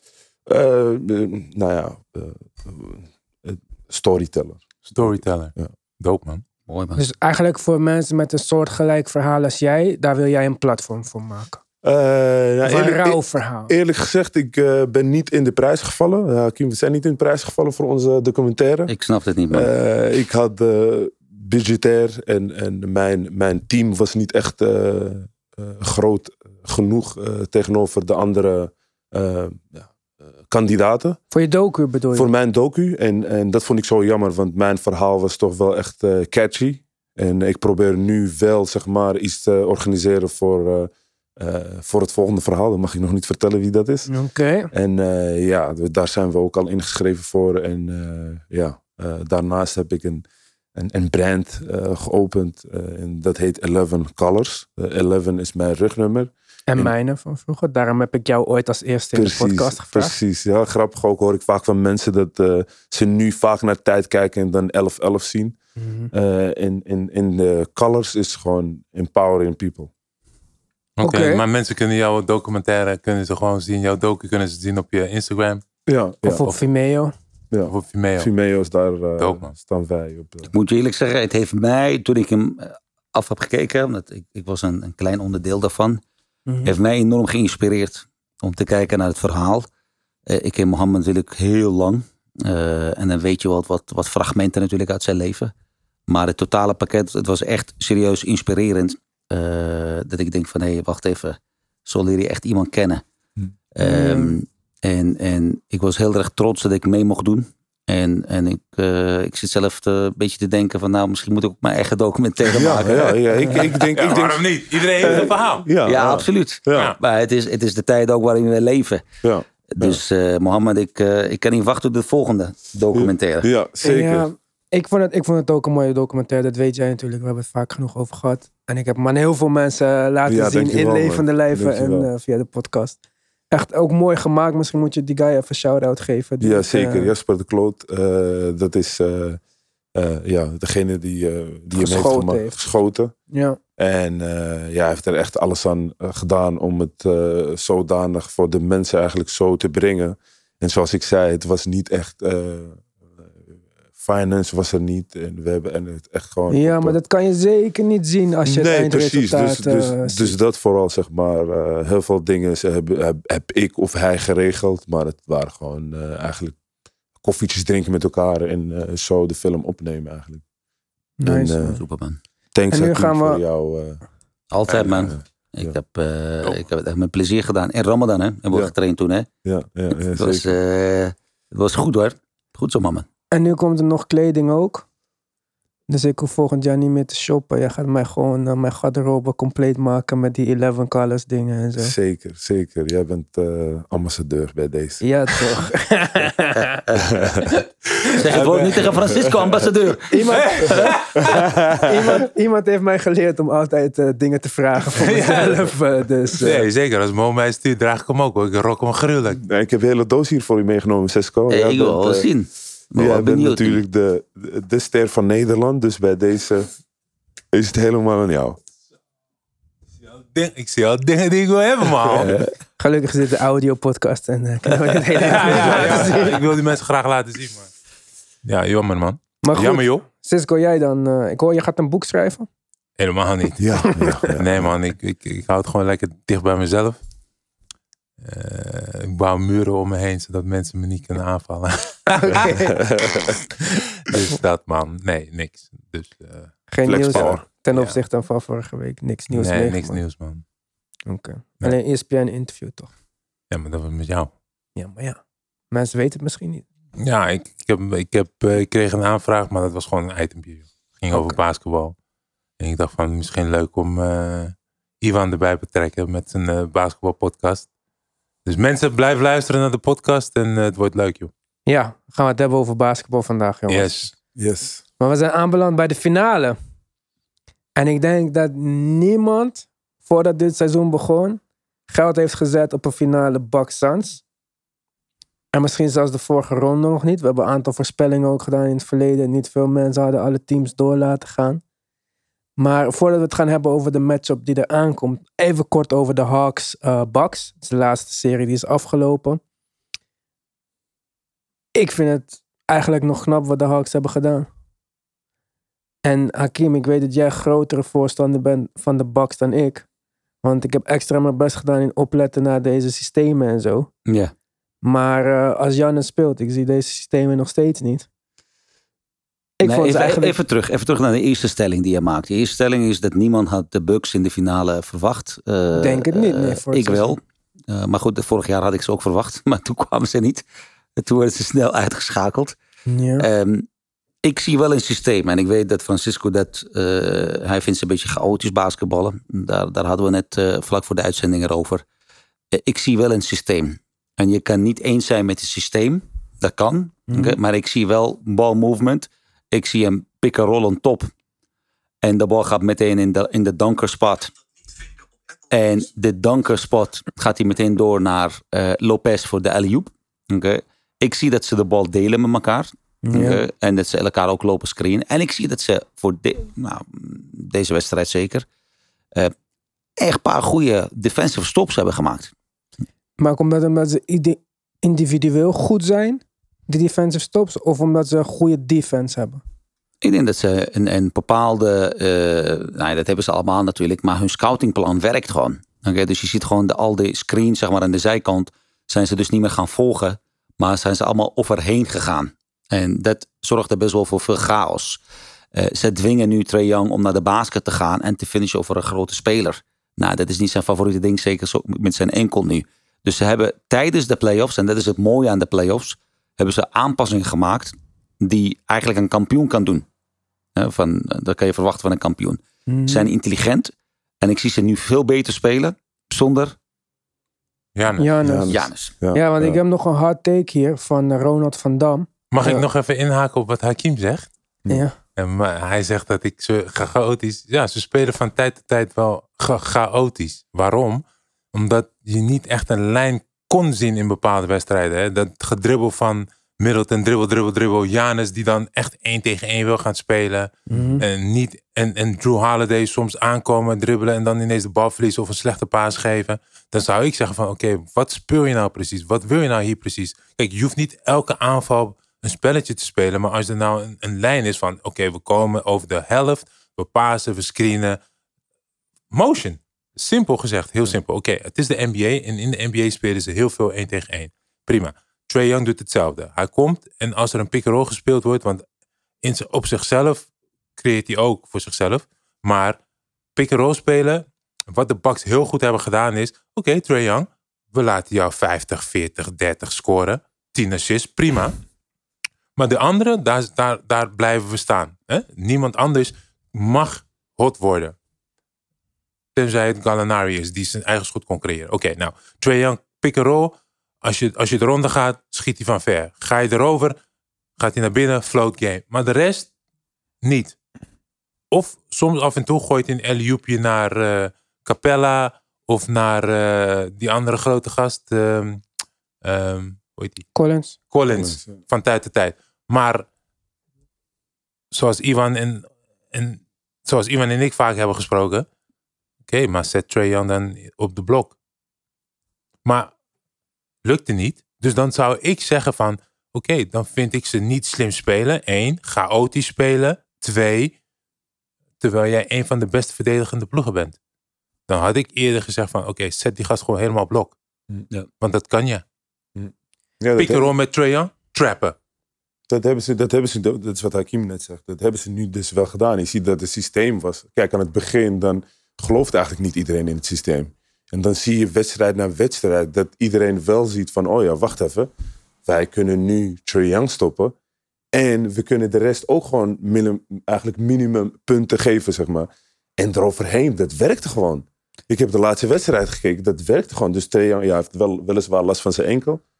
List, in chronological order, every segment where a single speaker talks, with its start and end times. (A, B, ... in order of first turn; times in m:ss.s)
0:00.5-0:05.7 A
0:04.8-0:06.4 B
0:06.7-0:07.1 C
0:07.0-0:11.6 D
0:11.8-0:18.9 A
0:12.6-0:13.7 D
0:18.9-0:19.7 C
0:19.5-0:29.9 A
0:30.4-0:31.2 A
0:31.3-0:32.3 D
0:32.1-0:44.1 A
0:44.1-0:44.7 D
0:44.7-0:50.2 A
0:50.8-0:56.9 A
0:56.7-1:00.1 D
0:59.1-1:05.6 A
1:05.8-1:06.1 D
1:06.1-1:09.9 A
1:11.0-1:15.6 B
1:11.0-1:11.4 D
1:15.8-1:16.4 A
1:16.2-1:17.1 D
1:17.5-1:20.5 A
1:17.7-1:18.3 B
1:19.2-1:19.5 B
1:20.5-1:26.0 C
1:26.5-1:26.7 D
1:26.6-1:29.7 C
1:30.3-1:35.5 C
1:36.1-1:43.0 C
1:43.7-1:53.6 C
1:43.8-1:44.4 D
1:52.5-1:57.0 A
1:53.7-1:55.7 B
1:55.8-1:59.0 C
1:56.7-1:57.0 B
1:59.2-2:00.0 A
1:59.8-2:03.5 C
2:02.9-2:04.3 A
2:03.8-2:13.0 D
2:10.2-2:12.1 A
2:13.5-2:17.1 D
2:16.4-2:19.4 A
2:19.9-2:23.1 A
2:21.7-2:22.6 D
2:23.3-2:23.6 D
2:23.8-2:33.3 A
2:34.0-2:37.0 A
2:36.5-2:40.4 D
2:38.4-2:46.5 A
2:47.2-2:50.4 A
2:51.2-2:51.8 D
2:51.2-2:51.8 A
2:51.8-2:52.2 C
2:52.5-2:54.0 A
2:52.7-2:53.4 D
2:54.5-2:59.3 C
2:54.7-2:55.1 B
2:55.1-2:55.8 A
2:59.4-3:00.6 A
3:00.1-3:03.0 C
3:03.3-3:04.8 D
3:05.9-3:11.9 D
3:11.8-3:15.0 A
3:15.0-3:16.8 D
3:17.0-3:17.5 A
3:18.2-3:20.4 C
3:18.3-3:19.1 B
3:20.1-3:26.6 D
3:20.3-3:21.2 B
3:21.1-3:22.1 A
3:24.9-3:25.7 B
3:26.4-3:29.4 B
3:29.4-3:32.3 A
3:31.5-3:33.8 C
3:32.9-3:36.7 A
3:37.5-3:38.6 A
3:40.0-3:42.4 B
3:42.8-3:46.4 D
3:45.1-3:47.7 B
3:48.4-3:50.0 B
3:49.4-3:52.5 D
3:53.0-3:57.0 B
3:53.6-3:54.7 A
3:58.2-4:02.5 B
4:02.1-4:02.8 D
4:02.8-4:03.3 A
4:03.6-4:06.5 B
4:06.7-4:10.0 D
4:06.8-4:07.4 A
4:07.7-4:08.0 B
4:09.3-4:10.4 B
4:11.1-4:12.9 D
4:13.5-4:14.3 B
4:14.8-4:15.2 D
4:15.7-4:16.6 D
4:17.0-4:21.9 B
4:21.1-4:21.4 D
4:22.6-4:27.7 B
4:28.4-4:31.3 B
4:31.6-4:34.1 D
4:33.7-4:34.1 B
4:34.4-4:34.8 A
4:35.0-4:36.6 D
4:37.8-4:44.2 D
4:45.5-4:51.6 D
4:52.6-4:59.4 D
5:01.7-5:04.5 D
5:06.0-5:09.8 D
5:10.4-5:13.9 D
5:14.1-5:14.3 C
5:14.8-5:18.1 D
5:19.6-5:20.3 D
5:19.6-5:30.4 C
5:25.8-5:27.2 D
5:31.0-5:32.6 C
5:32.9-5:33.3 D
5:33.2-5:33.7 C
5:34.2-5:41.8 C
5:42.5-5:51.1 C
5:47.1-5:47.4 D
5:52.0-5:54.3 C
5:55.5-6:08.4 C
6:03.0-6:03.4 D
6:10.0-6:12.3 C
6:13.2-6:19.4 D
6:20.0-6:35.0 C
6:35.5-6:49.8 C
6:50.6-6:56.6 C
6:52.7-6:53.1 D
6:57.8-6:58.2 B
6:58.0-6:58.6 D
6:58.2-6:59.6 A
6:58.5-6:58.9 C
6:59.1-7:02.6 D
7:02.3-7:04.3 B
7:04.7-7:05.0 D
7:05.2-7:38.0 B
7:20.7-7:21.0 D
7:39.1-7:48.6 B
7:49.2-7:50.2 B
7:50.8-7:52.8 B
7:53.3-8:01.6 B
8:02.6-8:07.9 B
8:09.3-8:17.0 B
8:17.6-8:19.5 B
8:20.2-8:20.6 B
8:21.5-8:28.6 B
8:29.2-8:30.3 B
8:30.3-8:30.8 D
8:30.9-8:33.0 B
8:31.1-8:31.5 A
8:34.7-8:38.4 B
8:39.2-8:41.3 B
8:42.6-8:42.9 B
8:43.8-8:50.7 B
8:51.8-8:54.0 B
8:54.7-8:57.4 B
8:58.2-8:58.8 B
8:59.4-9:00.5 A
9:00.2-9:01.8 B
9:02.5-9:14.9 A
9:15.4-9:17.3 A
9:17.9-9:29.2 A